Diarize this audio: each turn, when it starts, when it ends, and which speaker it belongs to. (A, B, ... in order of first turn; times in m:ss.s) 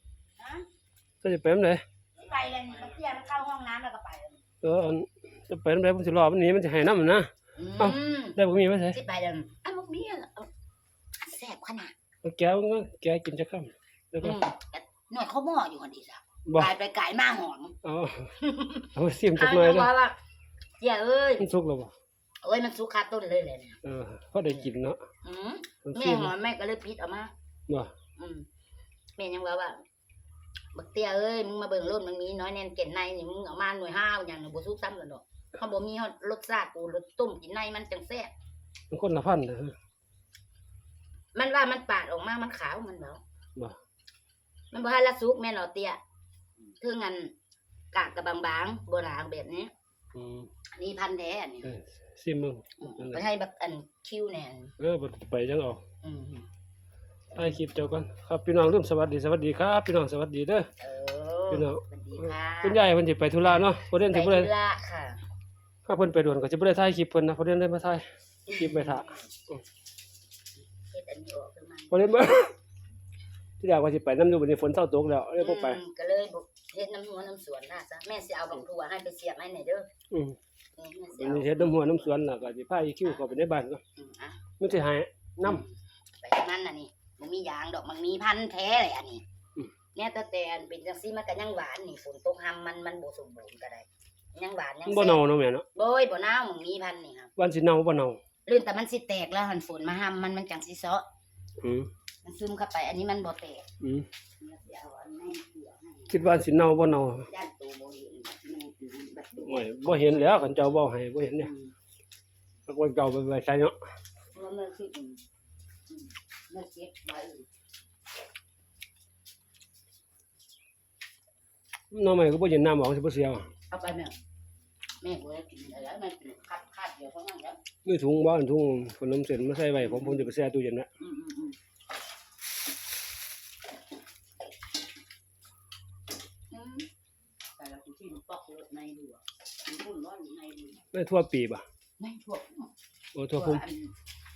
0:00.4-0:00.6 A
0:01.2-0:01.8 B
0:02.1-0:04.4 A
0:04.6-0:09.0 B
0:07.6-0:08.4 A
0:08.9-0:10.5 A
0:11.2-0:11.9 A
0:12.2-0:14.4 B
0:14.2-0:17.8 A
0:16.4-0:16.7 B
0:17.8-0:18.3 B
0:18.4-0:20.2 A
0:18.9-0:19.9 B
0:20.8-0:21.4 A
0:21.4-0:21.9 B
0:22.4-0:23.8 A
0:23.8-0:25.0 B
0:25.2-0:27.3 A
0:25.8-0:26.3 B
0:28.2-0:28.5 A
0:29.2-0:29.8 A
0:30.7-0:38.3 A
0:38.9-0:39.7 B
0:41.3-0:43.2 A
0:44.7-0:46.0 A
0:46.8-0:47.3 A
0:47.9-0:49.7 A
0:50.1-0:50.5 B
0:50.7-0:51.7 A
0:51.6-0:53.2 B
0:52.8-0:54.7 A
0:54.8-0:55.8 B
0:56.0-0:56.5 A
0:57.3-1:00.7 B
1:00.8-1:02.8 A
1:01.5-1:04.5 B
1:03.4-1:05.2 A
1:05.8-1:09.6 B
1:08.5-1:09.3 A
1:10.8-1:12.0 A
1:11.9-1:12.5 B
1:13.6-1:15.8 B
1:15.4-1:19.9 A
1:20.1-1:20.4 B
1:20.8-1:21.9 A
1:21.1-1:23.8 B
1:24.0-1:24.4 A
1:24.6-1:25.6 B
1:25.4-1:29.2 A
1:29.9-1:35.2 A
1:34.8-1:35.6 B
1:35.7-1:37.3 A
1:37.4-1:38.2 B
1:38.4-1:41.0 A
1:41.6-1:41.9 B
1:42.2-1:43.7 A
1:43.8-1:44.0 B
1:44.4-1:46.2 A
1:46.1-1:47.3 B
1:47.2-1:50.4 A
1:49.4-1:51.5 B
1:51.3-1:51.7 A
1:52.7-1:53.8 B
1:54.3-1:55.2 A
1:55.9-1:57.5 A
2:01.9-2:03.5 B
2:03.7-2:04.1 A
2:05.0-2:07.6 A
2:07.8-2:10.9 B
2:09.7-2:10.3 A
2:11.0-2:11.6 A
2:16.5-2:16.9 A
2:17.6-2:20.8 A
2:20.9-2:21.6 B
2:22.0-2:22.7 A
2:23.1-2:23.6 B
2:23.3-2:23.9 A